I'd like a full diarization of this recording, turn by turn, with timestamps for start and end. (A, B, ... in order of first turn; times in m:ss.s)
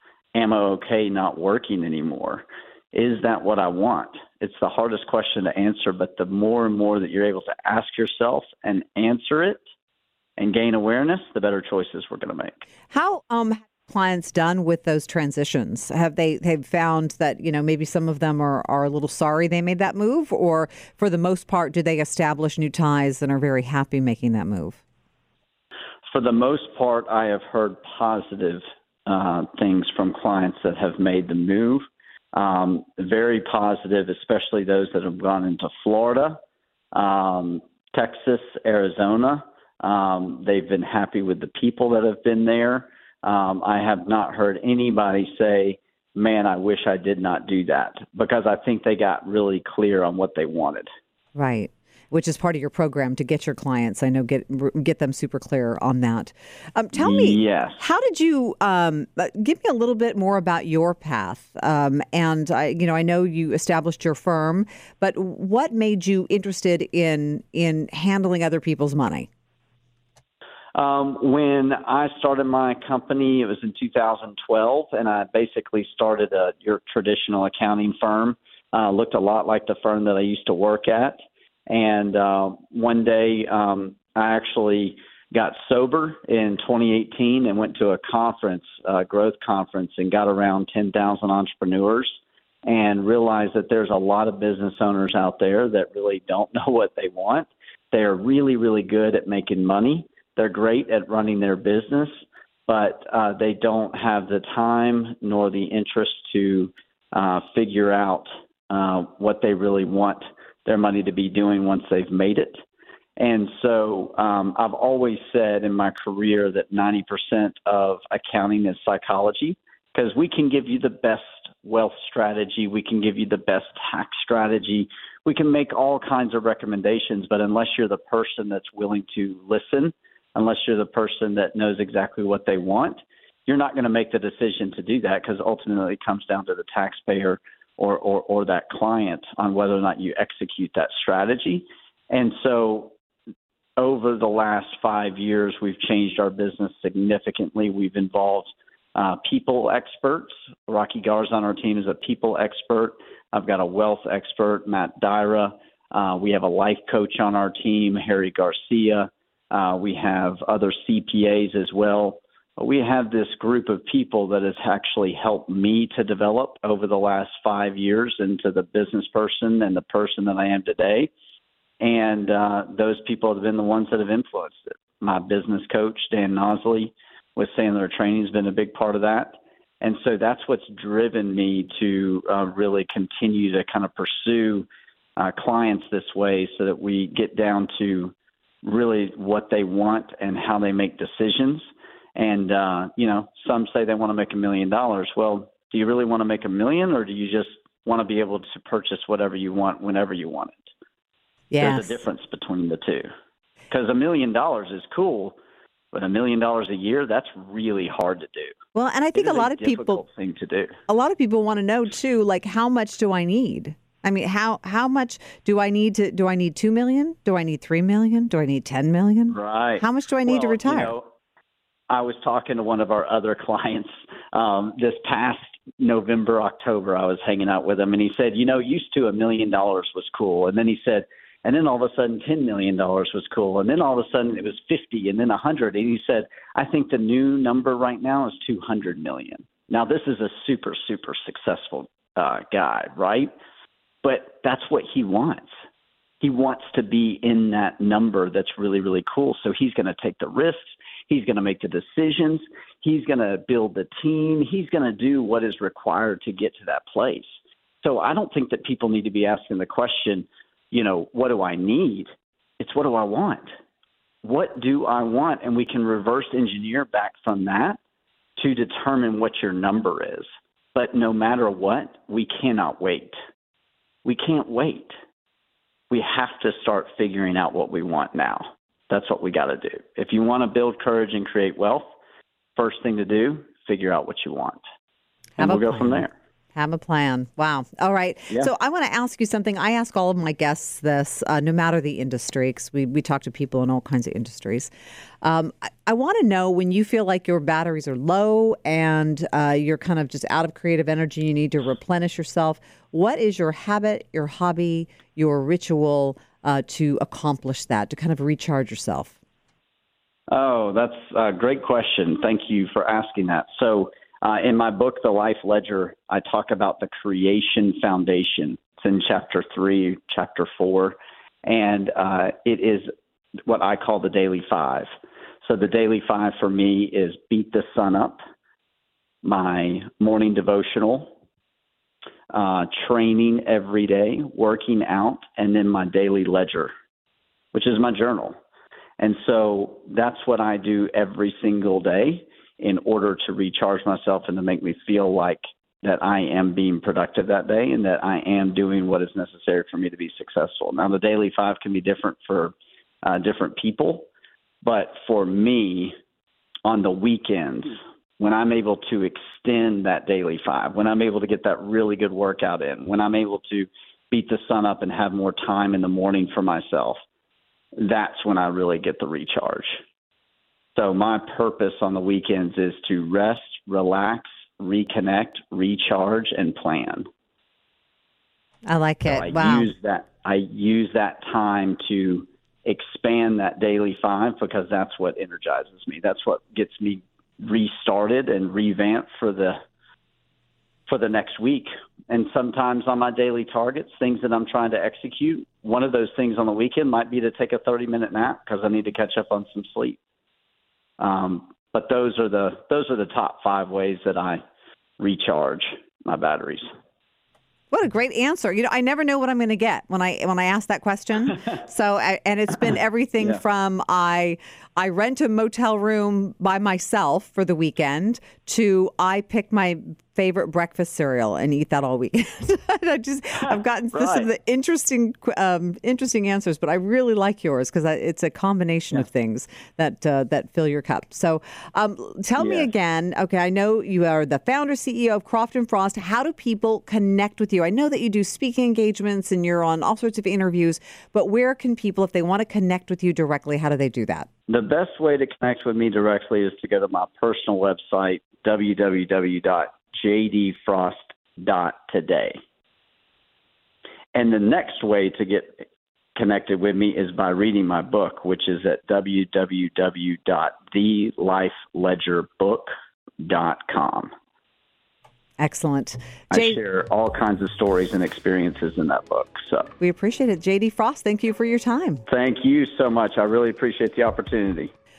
0:00.3-0:09.6 A
0:10.4-0:12.6 A
0:12.9-0:24.8 B
0:26.1-0:36.4 A
0:36.9-0:50.9 A
0:51.4-1:09.3 B
0:57.0-0:57.8 A
1:10.8-1:42.1 A
1:42.7-1:52.6 A
1:53.2-2:22.9 A
2:23.8-2:51.1 A
2:51.8-3:11.6 A
3:12.2-3:20.7 A
3:21.5-3:22.0 B
3:21.6-3:23.1 A
3:23.7-3:25.4 A
3:25.9-3:28.6 A
3:28.8-3:30.0 B
3:29.2-3:30.8 A
3:30.9-3:41.0 B
3:39.3-3:41.1 A
3:41.9-4:03.3 A
4:04.0-4:05.5 A
4:06.2-4:17.3 A
4:17.8-4:23.4 A
4:24.2-4:27.8 A
4:28.4-4:33.2 A
4:34.0-4:34.9 A
4:35.9-4:41.9 A
4:42.6-4:44.6 A
4:45.4-4:54.7 B
4:45.4-4:46.1 A
4:55.2-5:09.2 B
5:10.3-5:22.9 A
5:23.5-5:24.9 A
5:25.4-5:28.2 A
5:29.2-5:31.2 A
5:32.3-5:36.7 A
5:37.5-5:38.4 A
5:39.0-5:54.1 A
5:54.6-5:55.9 A
5:56.7-6:07.0 A
6:07.8-6:09.8 A
6:10.8-6:17.1 A
6:18.7-6:19.7 B
6:19.1-6:29.6 A
6:30.9-6:40.0 A
6:41.0-6:44.4 A
6:45.0-6:46.7 A
6:47.7-7:24.3 B
7:03.4-7:04.3 A
7:12.4-7:12.7 A
7:24.5-7:32.4 A
7:34.1-7:35.6 A
7:36.2-7:44.1 A
7:45.4-7:46.6 B
7:46.3-7:49.7 A
7:49.8-7:52.0 B
7:52.1-7:54.7 A